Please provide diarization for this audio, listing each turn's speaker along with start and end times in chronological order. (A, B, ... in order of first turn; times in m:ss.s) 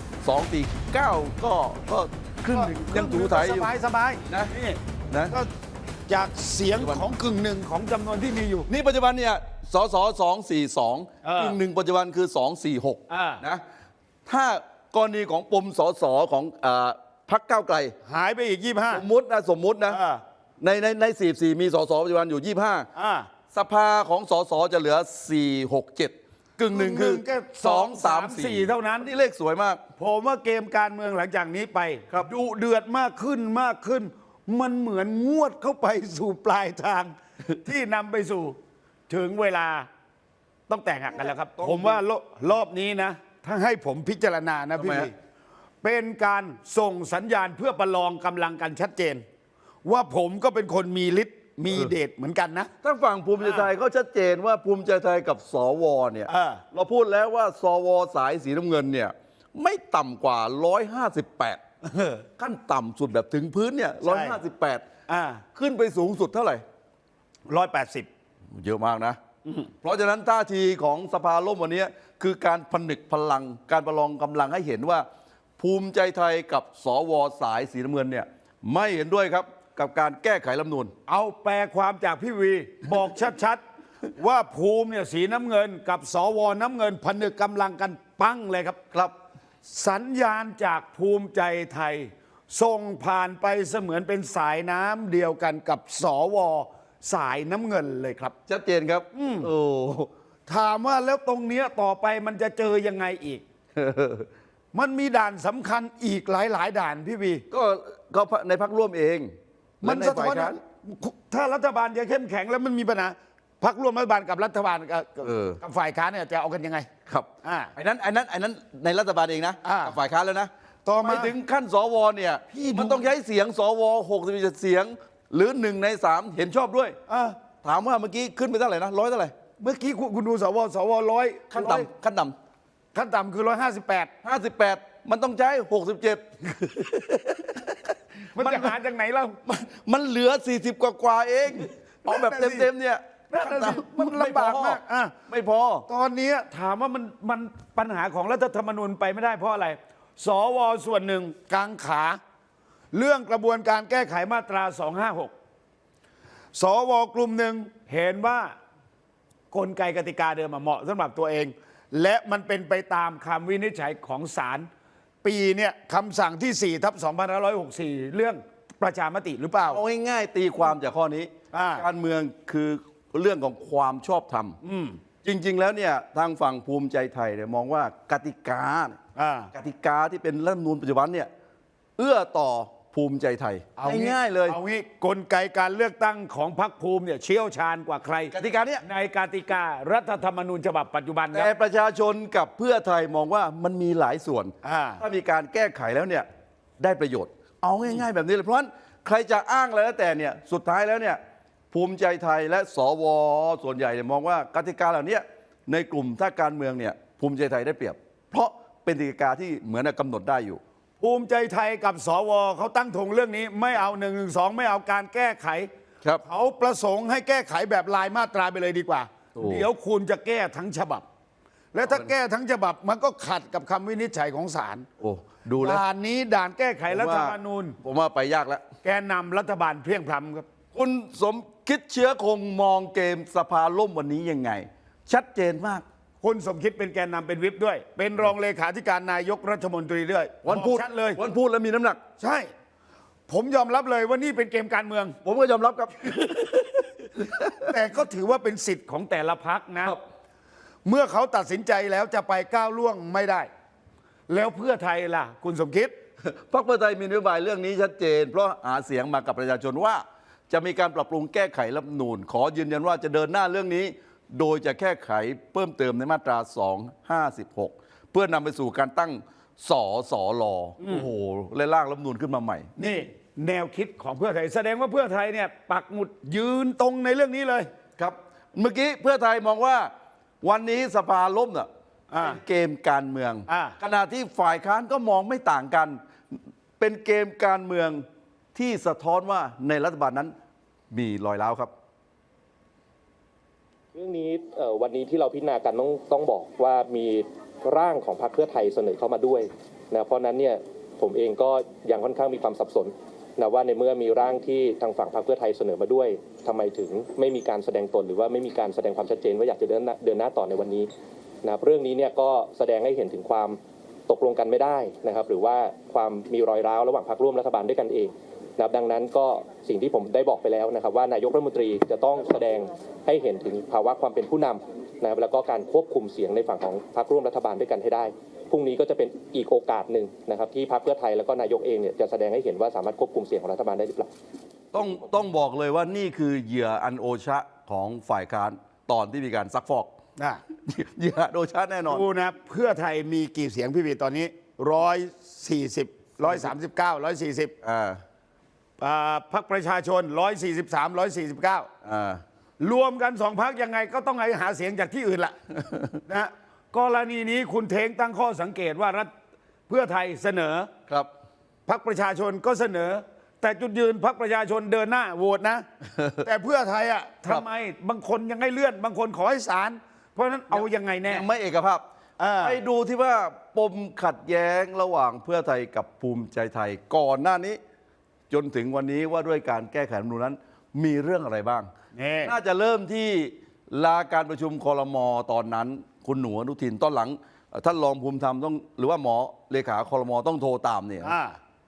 0:00.2-0:03.7 A
0:02.5-0:04.8 B
0:05.1-0:05.4 A
0:06.1-0:08.7 B
0:06.8-0:07.0 A
0:08.7-0:13.6 A
0:11.2-0:11.6 B
0:13.1-0:13.4 B
0:14.3-0:18.0 A
0:18.0-0:19.0 B
0:18.9-0:20.0 A
0:19.9-0:20.2 B
0:20.6-0:22.9 A
0:23.0-0:23.3 B
0:23.5-0:29.8 A
0:26.7-0:29.1 B
0:30.0-0:38.6 B
0:39.1-0:39.9 B
0:40.7-0:45.1 B
0:41.5-0:42.0 A
0:44.8-0:45.1 A
0:45.8-0:49.2 B
0:49.8-0:52.7 B
0:52.8-1:01.6 A
0:53.4-0:53.7 B
0:56.3-0:56.6 B
1:01.8-1:02.2 B
1:02.4-1:04.8 A
1:04.0-1:04.4 B
1:05.1-1:05.4 B
1:05.6-1:06.6 A
1:07.5-1:08.1 B
1:08.5-1:09.2 A
1:09.8-1:15.1 A
1:15.6-1:20.9 A
1:21.1-1:23.6 B
1:24.2-1:28.8 B
1:29.6-1:38.3 B
1:38.5-1:40.1 A
1:39.1-1:39.5 B
1:40.5-1:43.4 B
1:43.8-1:44.3 A
1:44.7-1:47.4 B
1:47.5-1:50.6 A
1:49.8-1:56.9 B
1:55.2-1:55.6 A
1:57.1-2:00.5 A
1:57.4-1:57.7 B
1:59.6-2:00.0 B
2:00.8-2:01.3 B
2:01.0-2:07.0 A
2:02.6-2:03.0 B
2:07.1-2:07.4 B
2:07.6-2:09.3 A
2:09.6-2:11.9 B
2:11.5-2:12.4 A
2:12.9-2:14.1 B
2:14.2-2:18.8 A
2:18.3-2:19.4 B
2:19.4-2:25.9 A
2:22.0-2:22.7 B
2:23.3-2:25.1 B
2:25.9-2:32.2 B
2:32.9-2:35.3 B
2:36.6-2:38.6 B
2:39.5-2:44.7 B
2:45.2-2:49.8 B
2:49.7-2:54.6 A
2:51.5-2:51.9 B
2:54.6-2:55.0 B
2:55.2-2:59.0 A
2:59.2-2:59.5 B
2:59.5-3:01.3 A
3:02.0-3:04.6 A
3:03.8-3:11.5 B
3:08.3-3:08.8 A
3:11.3-3:16.3 A
3:14.6-3:15.0 B
3:16.8-3:21.2 A
3:21.7-3:30.6 A
3:31.0-3:35.7 B
3:36.2-3:41.0 B
3:39.4-3:39.6 A
3:41.7-3:44.9 B
3:45.0-3:45.8 A
3:45.6-3:47.8 B
3:46.9-3:48.6 A
3:48.8-3:50.4 B
3:50.7-3:55.8 A
3:56.2-4:01.2 B
4:00.4-4:02.0 A
4:02.2-4:02.5 B
4:03.3-4:05.2 B
4:05.2-4:07.7 A
4:07.6-4:10.0 B
4:10.8-4:13.5 B
4:14.3-4:15.9 B
4:16.2-4:32.7 A
4:30.8-4:31.1 B
4:32.8-4:37.7 B
4:38.0-4:39.9 A
4:40.4-4:50.3 A
4:42.1-4:42.4 B
4:43.5-4:43.8 B
4:50.9-4:51.7 A
4:53.9-5:10.9 C
5:11.4-5:34.1 C
5:34.7-5:39.9 A
5:40.2-5:40.4 B
5:40.6-5:42.0 A
5:41.9-5:47.5 B
5:46.2-5:46.5 A
5:47.6-5:48.0 A
5:48.8-5:51.7 B
5:51.8-5:52.2 A
5:52.6-5:55.4 B
5:55.6-5:56.0 A
5:56.1-5:59.1 B
5:59.7-6:00.7 B
6:01.7-6:05.6 B
6:06.0-6:06.2 A
6:06.2-6:11.3 B
6:10.5-6:11.8 A
6:12.2-6:12.6 B
6:12.4-6:17.6 A
6:18.3-6:21.7 A
6:22.0-6:22.3 B
6:22.2-6:31.2 A
6:31.0-6:31.4 B